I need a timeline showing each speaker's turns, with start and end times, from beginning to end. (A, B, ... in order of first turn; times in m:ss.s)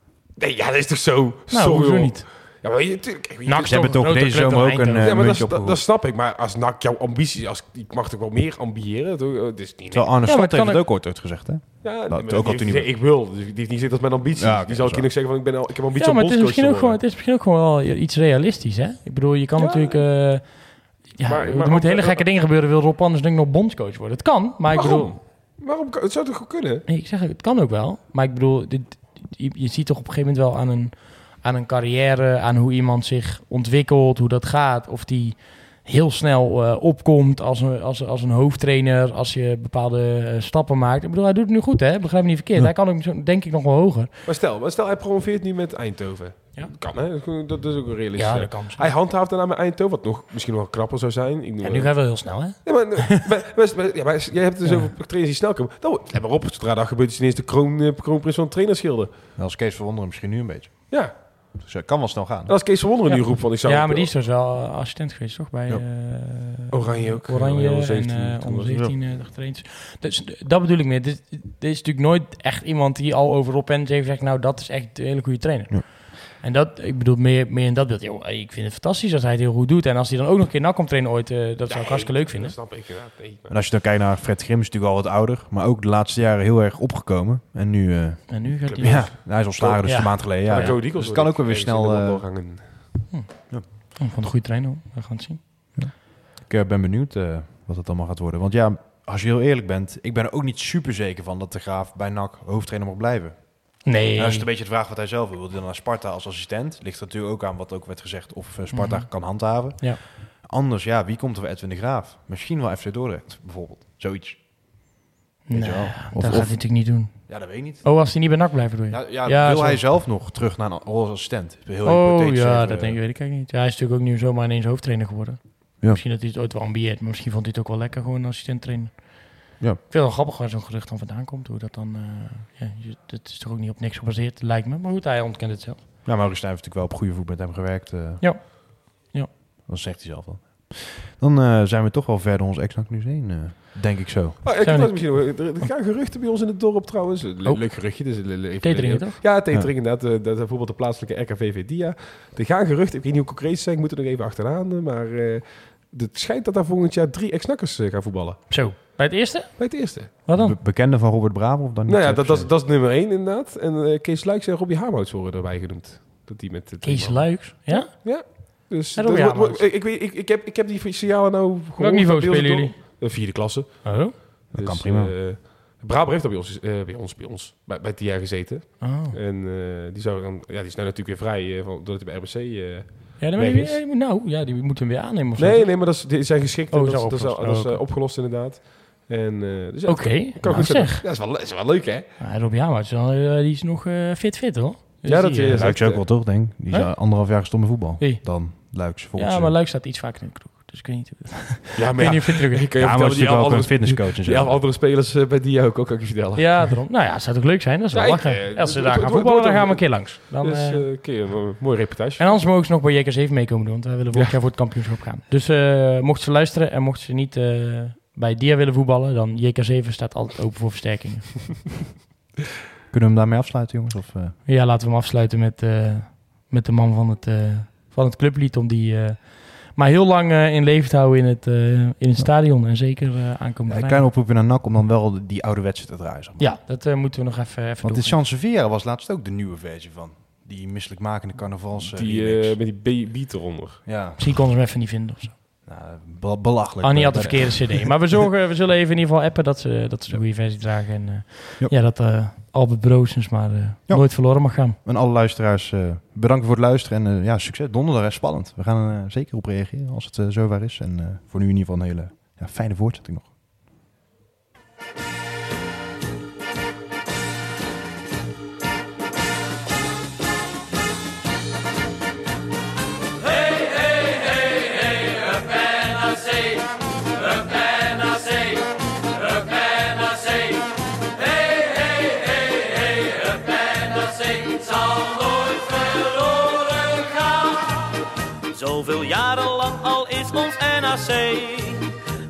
0:00.4-0:04.0 A
0:01.5-0:02.3 B
0:03.5-0:05.2 B
0:03.6-0:05.8 C
0:05.0-0:10.1 A
0:09.9-0:12.9 C
0:10.3-0:10.8 B
0:11.8-0:17.0 A
0:14.4-0:15.1 C
0:16.0-0:25.2 B
0:19.6-0:20.1 A
0:21.2-0:22.2 A
0:24.7-0:26.9 A
0:26.9-0:44.1 B
0:44.3-0:59.1 A
0:48.2-0:48.9 B
0:51.6-0:53.2 B
0:54.6-0:54.9 B
0:59.4-1:02.6 C
1:00.9-1:01.6 A
1:02.5-1:04.1 A
1:03.1-1:22.6 B
1:06.7-1:08.8 A
1:21.7-1:23.6 A
1:23.5-1:32.3 C
1:28.3-1:30.8 B
1:28.7-1:32.9 A
1:33.1-1:35.8 B
1:35.8-1:55.0 C
1:43.8-1:44.5 B
1:48.7-1:50.0 B
1:55.5-1:59.8 B
1:55.5-2:03.0 C
2:01.8-2:15.8 B
2:16.0-2:18.5 C
2:18.2-2:19.3 B
2:19.7-2:24.4 C
2:24.4-2:39.0 A
2:24.6-2:25.5 B
2:27.4-2:29.2 B
2:38.5-2:40.6 B
2:39.6-2:40.1 A
2:40.3-2:42.5 C
2:41.9-3:03.8 A
2:46.8-2:49.6 B
2:51.8-2:54.2 B
2:54.5-2:55.2 C
2:58.8-2:59.2 B
3:03.2-3:06.2 B
3:05.4-3:12.1 A
3:06.7-3:07.8 B
3:09.9-3:11.0 B
3:12.2-3:16.0 B
3:15.0-3:16.1 A
3:15.6-3:19.6 C
3:16.7-3:22.6 B
3:21.8-3:26.8 A
3:22.8-3:24.6 C
3:26.4-3:30.8 B
3:27.9-3:32.4 A
3:32.2-3:41.7 B
3:34.1-3:34.8 A
3:42.9-3:44.4 C
3:44.5-3:54.1 B
3:53.7-3:56.5 C
3:56.4-3:58.2 B
3:57.8-4:02.6 C
4:02.0-4:03.9 A
4:03.8-4:04.3 C
4:04.2-4:05.4 B
4:05.6-4:08.1 C
4:06.8-4:14.8 B
4:13.9-4:23.3 C
4:33.2-4:48.0 D
4:48.5-4:51.9 D